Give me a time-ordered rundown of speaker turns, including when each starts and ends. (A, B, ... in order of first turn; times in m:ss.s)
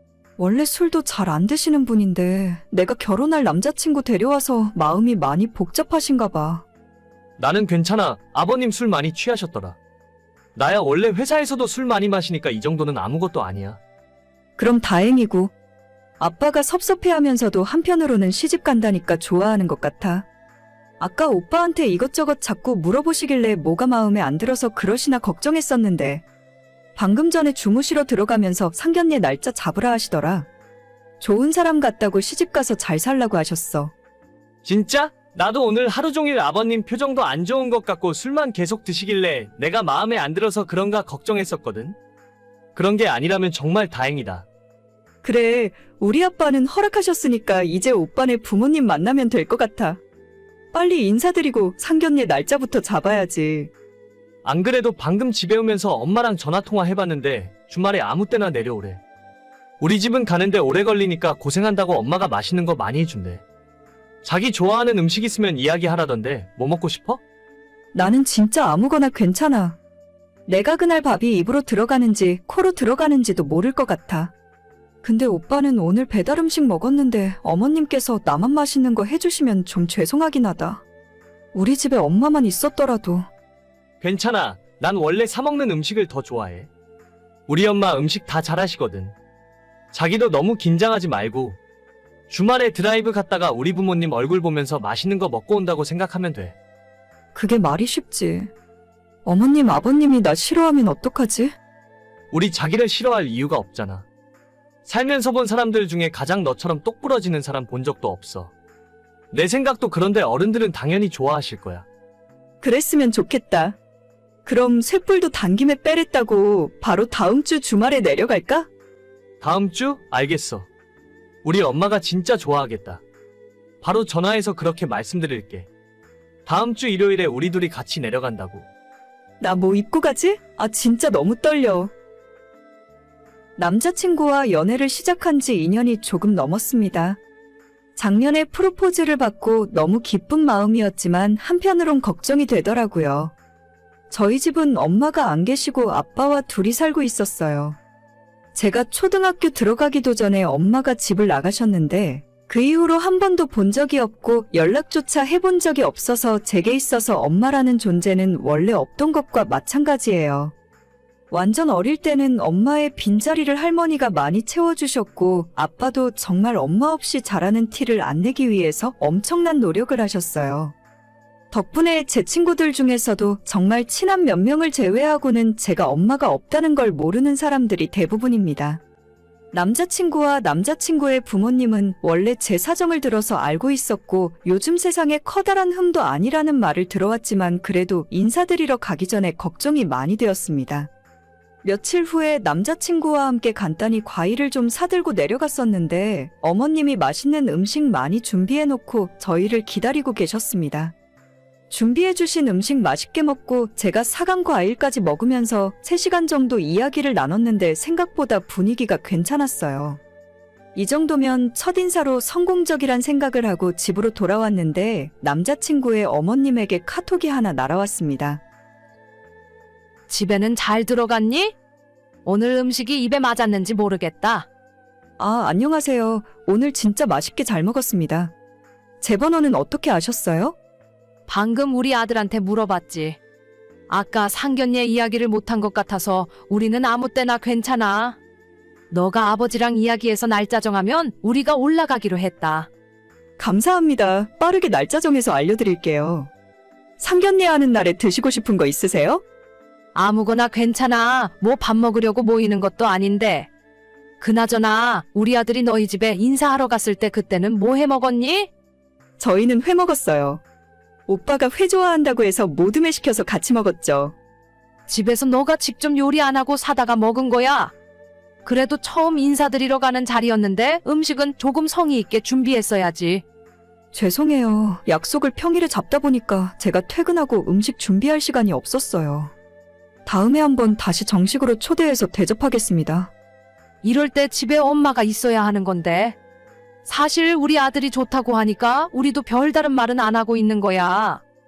0:00.4-0:06.6 A
0:07.4-0:09.8 B
0:10.6-0:13.8 B
0:14.6-0:15.5 A
0:16.2-0:20.3 A
0:21.0-0:26.2 A
0:27.0-0:30.5 A
0:31.2-0:33.9 A
0:34.6-0:42.0 B
0:42.8-0:44.5 B
0:45.2-0:50.0 A
0:50.7-0:53.7 A
0:54.4-0:59.0 B
0:59.8-1:03.4 B
1:04.2-1:07.2 B
1:07.9-1:09.8 A
1:10.5-1:14.3 A
1:15.0-1:20.8 A
1:21.5-1:23.3 A
1:24.0-1:26.7 B
1:27.5-1:29.2 B
1:29.9-1:31.6 B
1:32.3-1:36.6 B
1:37.3-1:38.5 A
1:39.2-1:41.6 A
1:42.3-1:44.1 B
1:44.8-1:48.5 B
1:49.3-1:51.8 B
1:52.6-1:53.8 A
1:54.4-1:58.7 A
1:59.4-2:00.7 B
2:01.4-2:03.0 B
2:03.8-2:05.7 B
2:06.5-2:08.7 B
2:09.4-2:11.9 A
2:13.6-2:17.2 A
2:18.0-2:23.3 A
2:24.1-2:27.8 A
2:28.5-2:40.5 A
2:41.3-2:50.8 A
2:51.5-2:58.8 A
2:59.5-3:10.9 A
3:11.6-3:20.9 A
3:21.7-3:30.0 A
3:30.8-3:38.4 A
3:40.1-3:41.6 C
3:42.2-3:44.5 C
3:45.2-3:48.3 A
3:49.0-3:50.6 A
3:51.3-3:53.2 C
3:53.9-3:58.2 C
3:58.9-4:02.7 C
4:03.4-4:06.3 A
4:07.0-4:09.2 A
4:10.0-4:13.5 C
4:14.2-4:18.5 C
4:19.2-4:20.4 A
4:21.1-4:24.2 A
4:24.9-4:27.7 C
4:28.4-4:33.2 C
4:33.9-4:39.3 A
4:40.1-4:43.1 A
4:43.8-4:46.2 C
4:46.8-4:51.2 C